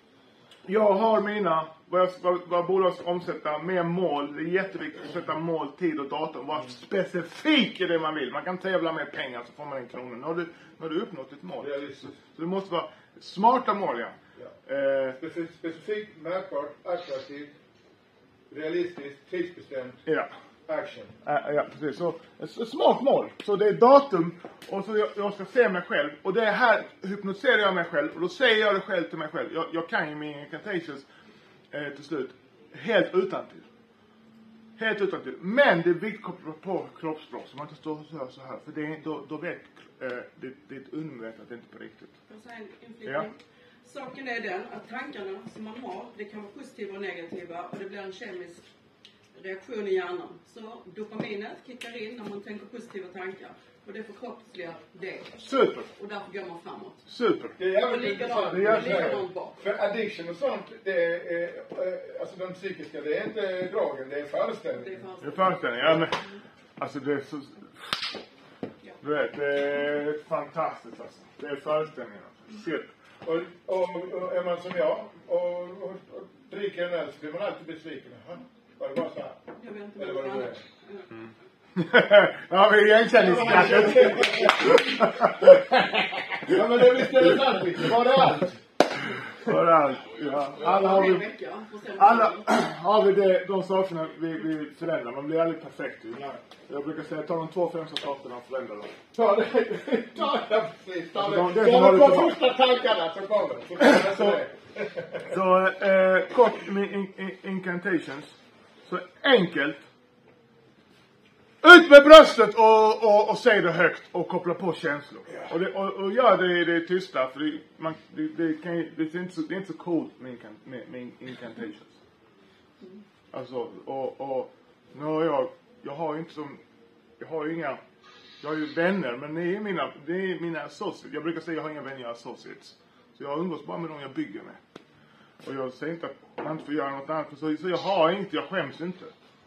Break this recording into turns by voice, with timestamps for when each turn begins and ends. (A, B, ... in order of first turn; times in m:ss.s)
0:00.7-0:15.2 A
0:11.6-0:12.2 B
0:15.2-0:17.5 B
0:18.5-0:20.0 B
0:20.0-0:20.3 A
0:20.6-0:21.1 B
0:21.2-0:31.0 A
0:31.7-0:33.6 A
0:34.8-0:42.1 A
0:42.3-0:48.6 C
0:49.3-0:55.3 C
0:55.4-0:55.9 A
0:55.9-0:57.0 C
0:57.1-0:57.6 A
0:57.6-1:05.1 B
0:57.7-0:59.6 C
0:58.5-0:59.3 A
1:04.7-1:06.0 C
1:05.2-1:06.2 A
1:06.8-1:08.1 A
1:09.0-1:12.9 A
1:13.2-1:19.4 B
1:19.6-1:21.1 C
1:20.0-1:20.6 B
1:21.1-1:28.5 A
1:23.2-1:24.8 B
1:26.4-1:28.6 B
1:29.4-1:31.3 A
1:30.5-1:32.5 C
1:32.0-1:38.9 A
1:36.1-1:36.4 B
1:39.1-1:45.3 B
1:41.1-1:42.4 A
1:43.8-1:44.4 A
1:45.3-1:48.3 A
1:48.8-1:49.8 A
1:51.6-2:01.9 A
2:03.3-2:06.6 A
2:07.2-2:07.8 A
2:08.4-2:14.6 A
2:15.4-2:19.1 A